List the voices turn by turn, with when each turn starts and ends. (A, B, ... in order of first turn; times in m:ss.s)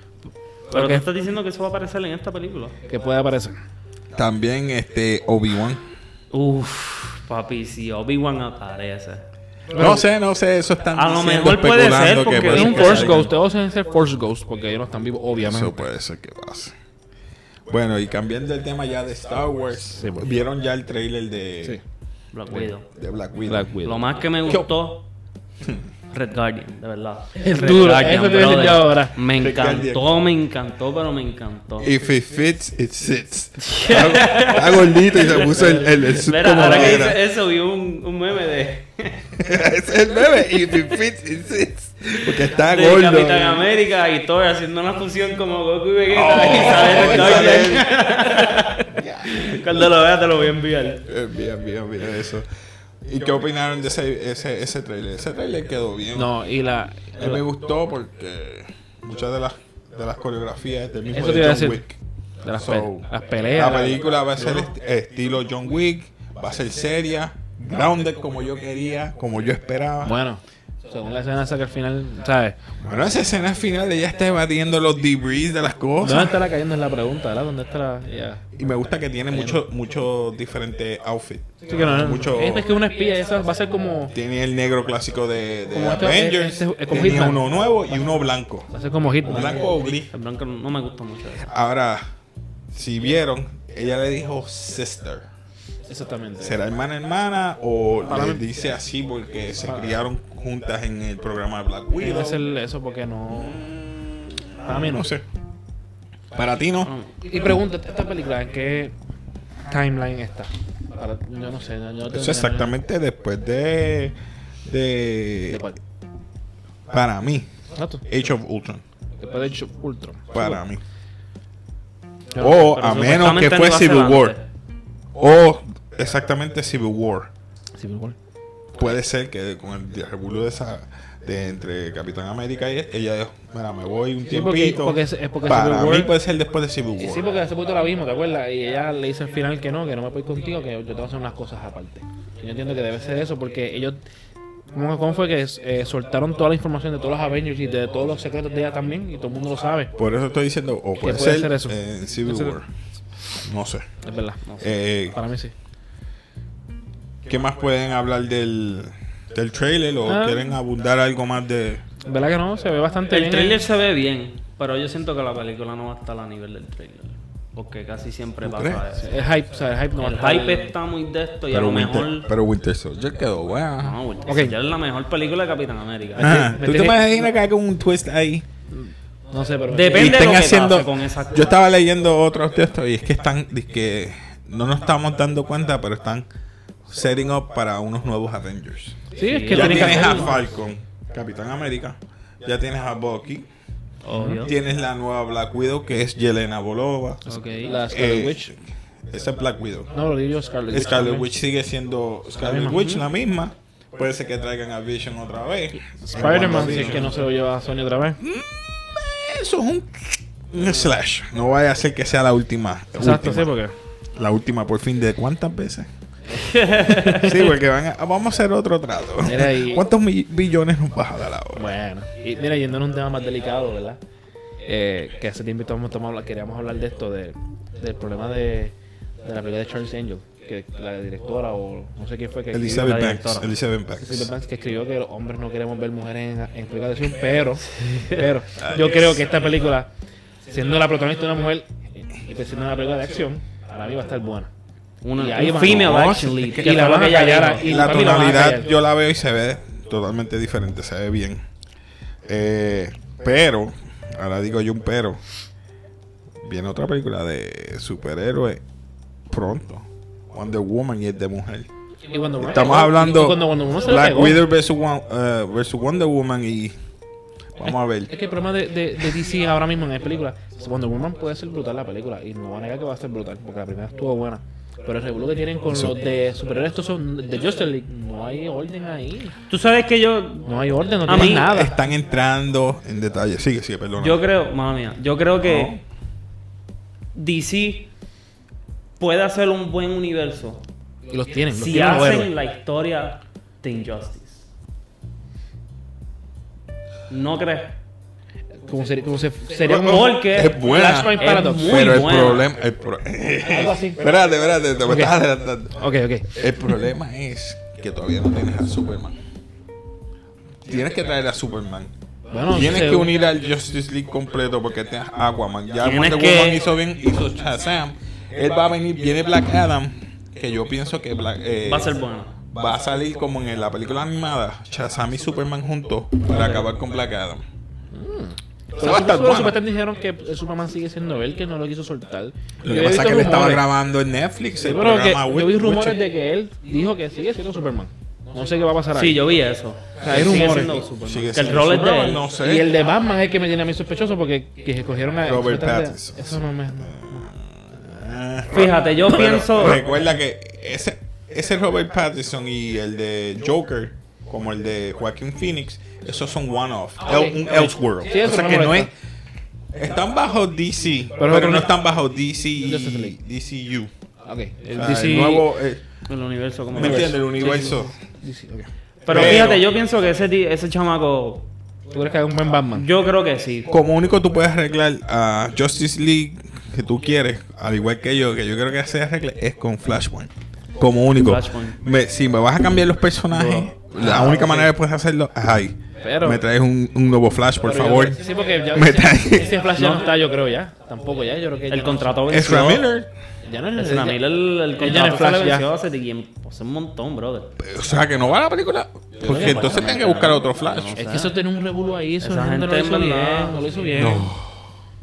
0:00.7-0:01.1 A
0:00.7-0:02.8 B
0:02.8-0:03.6 A
0:04.2-0:05.8 C
0:06.3-0:09.2 B
0:09.7-0:10.0 A
0:09.8-0:13.3 C
0:11.0-0:13.3 B
0:12.5-0:15.8 A
0:15.4-0:16.7 C
0:17.7-0:21.8 C
0:20.0-0:20.3 A
0:22.3-0:22.9 B
0:22.9-0:23.8 C
0:23.5-0:24.0 A
0:23.8-0:25.0 B
0:26.1-0:31.9 B
0:27.4-0:29.2 A
0:29.3-0:30.1 C
0:31.8-0:37.2 C
0:33.6-0:39.3 B
0:36.6-0:37.0 A
0:39.4-0:43.7 C
0:42.5-0:51.0 B
0:46.1-0:48.0 C
0:48.9-0:49.8 C
0:51.0-0:52.5 C
0:53.0-0:56.3 C
0:56.2-0:57.4 A
0:57.2-1:02.0 C
1:01.1-1:01.8 A
1:02.4-1:04.1 A
1:02.5-1:10.2 C
1:10.0-1:12.6 A
1:12.8-1:16.4 C
1:16.0-1:18.4 A
1:18.6-1:22.7 C
1:19.3-1:19.6 A
1:21.7-1:24.1 A
1:24.1-1:28.7 C
1:25.7-1:27.4 A
1:28.7-1:29.7 A
1:29.2-1:30.1 C
1:30.1-1:31.5 B
1:31.4-1:32.0 C
1:32.7-1:35.3 C
1:35.9-1:36.6 A
1:36.4-1:42.4 C
1:38.1-1:38.4 A
1:42.0-1:43.6 A
1:43.3-1:45.2 C
1:44.6-1:45.1 A
1:46.4-1:46.9 C
1:46.8-1:47.1 B
1:47.2-1:48.9 A
1:49.7-1:52.7 A
1:52.1-1:54.2 C
1:54.7-1:55.6 C
1:55.5-1:55.8 A
1:56.9-1:57.5 C
1:57.8-1:58.0 A
1:58.1-1:58.8 C
1:59.2-2:00.6 A
2:00.3-2:00.8 C
2:02.3-2:02.8 A
2:02.4-2:04.4 C
2:02.5-2:04.4 B
2:05.2-2:07.3 C
2:07.8-2:08.2 A
2:08.8-2:17.2 C
2:14.3-2:16.1 A
2:17.0-2:24.0 A
2:24.7-2:29.9 A
2:30.0-2:32.7 C
2:31.0-2:32.6 A
2:33.4-2:33.9 C
2:34.0-2:34.4 A
2:34.4-2:34.7 B
2:34.6-2:35.2 C
2:35.1-2:35.5 A
2:37.3-2:41.8 C
2:40.1-2:40.6 A
2:42.0-2:43.6 A
2:43.1-2:49.2 B
2:48.4-2:48.8 C
2:48.9-2:50.7 A
2:50.0-2:52.3 B
2:51.5-2:54.0 C
2:53.8-2:56.4 B
2:54.3-2:54.6 A
2:56.2-2:57.2 A
2:56.2-2:58.4 C
2:58.7-3:00.3 A
2:59.7-3:01.5 B
2:59.9-3:06.3 C
3:06.9-3:13.5 C
3:09.2-3:10.5 A
3:09.2-3:10.3 B
3:14.0-3:14.5 B
3:14.1-3:14.4 A
3:14.4-3:18.5 C
3:17.3-3:17.8 B
3:17.6-3:18.5 A
3:19.1-3:19.9 C
3:19.9-3:21.3 A
3:20.7-3:27.2 C
3:22.4-3:23.0 A
3:22.7-3:23.0 B
3:26.0-3:28.2 A
3:26.4-3:27.1 B
3:28.2-3:33.5 C
3:33.0-3:33.7 A
3:34.2-3:35.9 C
3:36.4-3:37.5 B
3:36.4-3:37.3 A
3:37.2-3:41.6 C
3:39.2-3:39.9 A
3:41.6-3:44.0 A
3:44.6-3:53.2 A
3:52.5-3:54.3 C
3:52.8-3:53.5 B
3:54.0-3:59.9 A
3:57.8-3:58.2 B
3:58.6-3:59.2 C
4:00.4-4:04.5 A
4:05.0-4:07.8 B
4:05.2-4:06.0 A
4:05.5-4:06.8 C
4:06.6-4:08.7 A
4:07.6-4:11.4 C
4:12.3-4:15.2 C
4:16.4-4:18.6 C
4:19.3-4:21.7 C
4:22.1-4:24.4 A
4:22.4-4:26.8 C
4:27.6-4:28.1 C
4:28.1-4:39.4 A
4:39.5-4:40.5 B
4:40.4-4:41.8 A
4:41.0-4:41.5 B
4:41.1-4:44.2 C
4:44.0-4:45.8 B
4:45.4-4:45.8 C
4:47.2-4:47.9 B
4:49.0-4:50.6 B
4:51.1-4:52.3 A
4:51.5-4:54.5 B
4:57.1-4:57.8 B
4:58.6-5:02.0 A
4:59.6-5:09.2 C
4:59.7-5:00.6 B
5:01.2-5:02.5 B
5:03.4-5:04.1 A
5:04.9-5:05.2 A
5:05.8-5:06.3 A
5:10.7-5:11.9 C
5:12.3-5:13.1 A
5:12.5-5:27.4 C
5:15.8-5:16.6 B
5:21.7-5:22.4 B
5:26.3-5:26.7 B
5:27.9-5:33.7 A
5:28.8-5:29.6 C
5:32.6-5:36.0 C
5:34.6-5:39.2 A
5:38.9-5:42.2 B
5:40.0-5:41.6 A
5:41.0-5:42.8 C
5:42.3-5:47.3 A
5:45.2-5:58.9 C
5:48.5-5:49.8 B
5:57.0-5:58.9 A
5:59.8-6:03.9 C
6:01.2-6:01.8 A
6:02.6-6:03.2 A
6:04.2-6:05.5 A
6:04.7-6:05.8 C
6:06.1-6:07.7 B
6:06.7-6:07.9 C
6:06.8-6:09.5 A
6:09.1-6:11.4 B
6:09.1-6:09.6 C
6:11.9-6:12.9 A
6:12.8-6:13.7 B
6:13.7-6:29.7 C
6:21.2-6:21.8 B
6:23.3-6:23.7 B
6:24.0-6:24.7 A
6:26.0-6:26.4 A
6:27.6-6:32.3 A
6:29.8-6:30.1 B
6:31.7-6:32.8 B
6:32.3-6:33.1 C
6:33.5-6:34.2 A
6:33.8-6:37.5 B
6:34.8-6:35.7 A
6:37.6-6:41.0 C
6:39.2-6:39.9 A
6:39.2-6:41.3 B
6:41.0-6:44.4 A
6:42.2-6:43.6 B
6:44.0-6:44.5 C